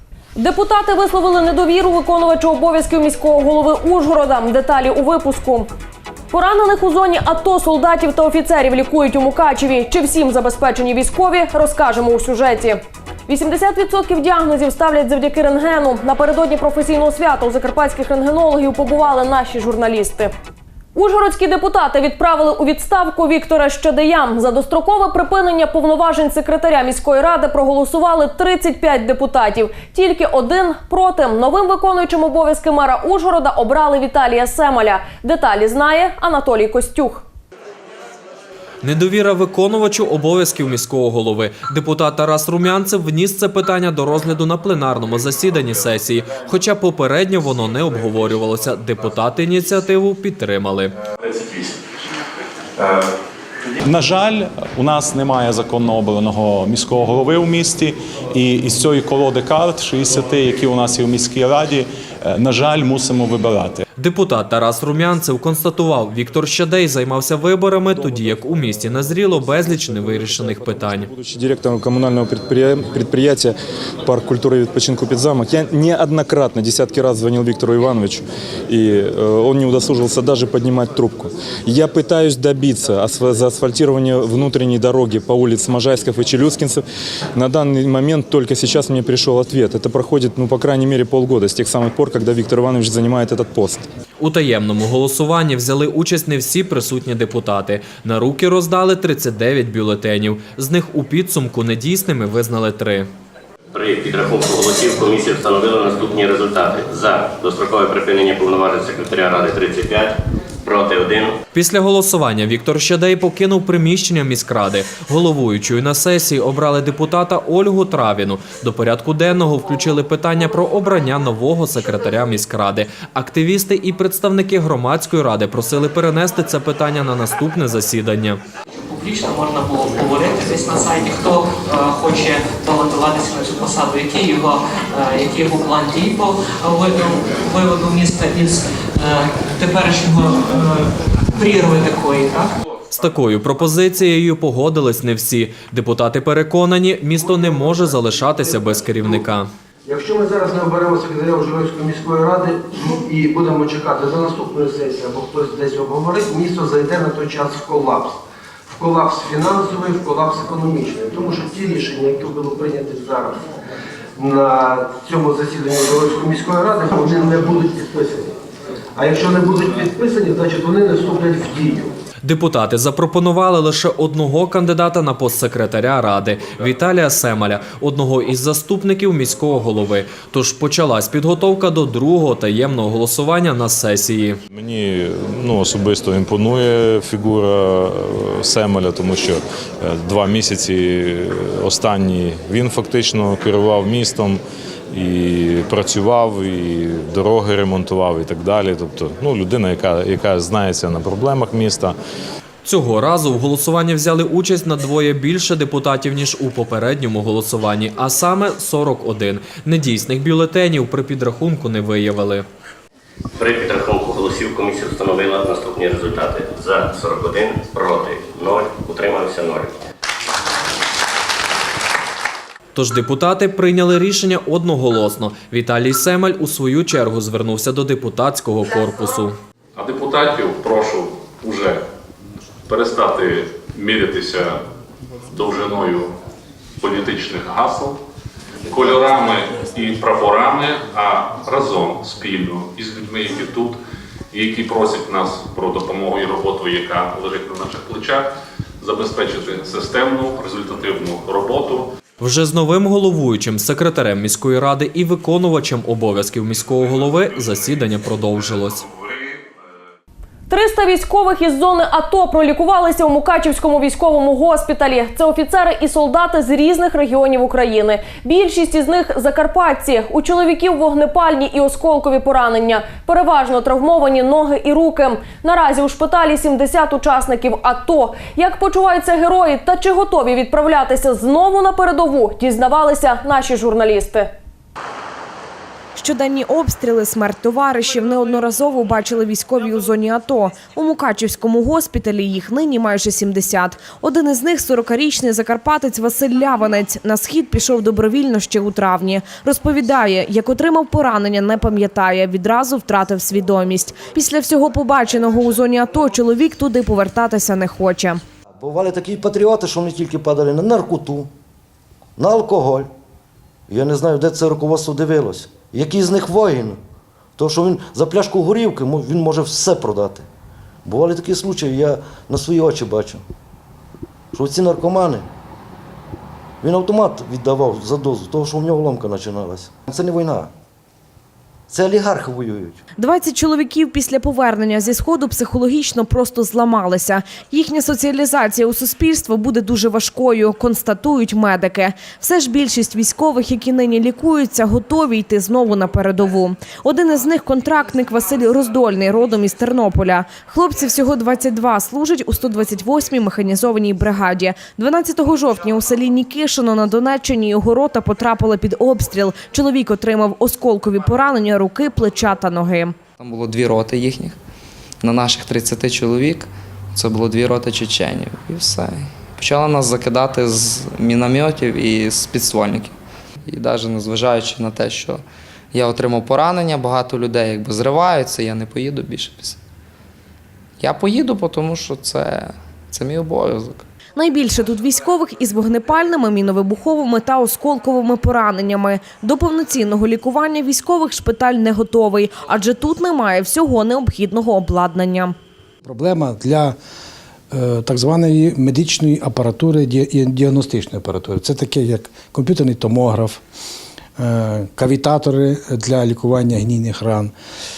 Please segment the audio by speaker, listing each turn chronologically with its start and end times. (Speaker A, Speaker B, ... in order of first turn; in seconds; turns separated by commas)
Speaker A: 0.3-5.7, Speaker A: 6.3-20.3, Speaker A: 20.9-37.2, Speaker B: 38.8-50.9, Speaker C: 53.8-63.8, Speaker B: 64.0-71.1, Speaker C: 71.1-71.7, Speaker D: 71.2-73.4, Speaker C: 72.4-73.5, Speaker D: 74.0-78.1, Speaker C: 77.8-78.2, Speaker D: 78.7-86.8, Speaker D: 87.4-93.8, Speaker B: 94.2-103.1, Speaker E: 103.8-110.1, Speaker E: 110.7-111.3, Speaker B: 111.5-128.4, Speaker F: 128.9-142.5, Speaker B: 142.9-149.5, Speaker G: 147.2-147.5, Speaker G: 148.4-149.2, Speaker G: 149.8-163.4, Speaker G: 164.2-168.3, Speaker G: 168.9-171.9, Speaker B: 172.2-184.4, Speaker C: 184.5-201.9, Speaker B: 202.6-212.4, Speaker E: 213.4-219.7, Speaker B: 222.7-229.3, Speaker H: 229.8-231.8, Speaker H: 232.7-234.6, Speaker H: 235.3-236.1, Speaker H: 236.8-238.0, Speaker H: 238.7-243.8, Speaker H: 244.3-248.3, Speaker H: 248.8-251.9, Speaker B: 252.2-258.8, Speaker A: 260.5-284.3, Speaker I: 286.0-308.2, Speaker J: 308.6-311.3, Speaker J: 312.2-312.9, Speaker J: 313.7-316.8, Speaker J: 317.4-320.2, Speaker J: 320.9-323.2, Speaker J: 324.3-325.3, Speaker J: 326.6-330.5, Speaker J: 331.7-332.8, Speaker I: 333.0-362.9, Speaker K: 363.2-364.4, Speaker K: 365.0-372.9, Speaker K: 373.5-379.6, Speaker K: 380.8-383.8, Speaker I: 384.2-395.3, Speaker L: 395.8-396.8, Speaker L: 397.5-403.4, Speaker L: 404.2-407.3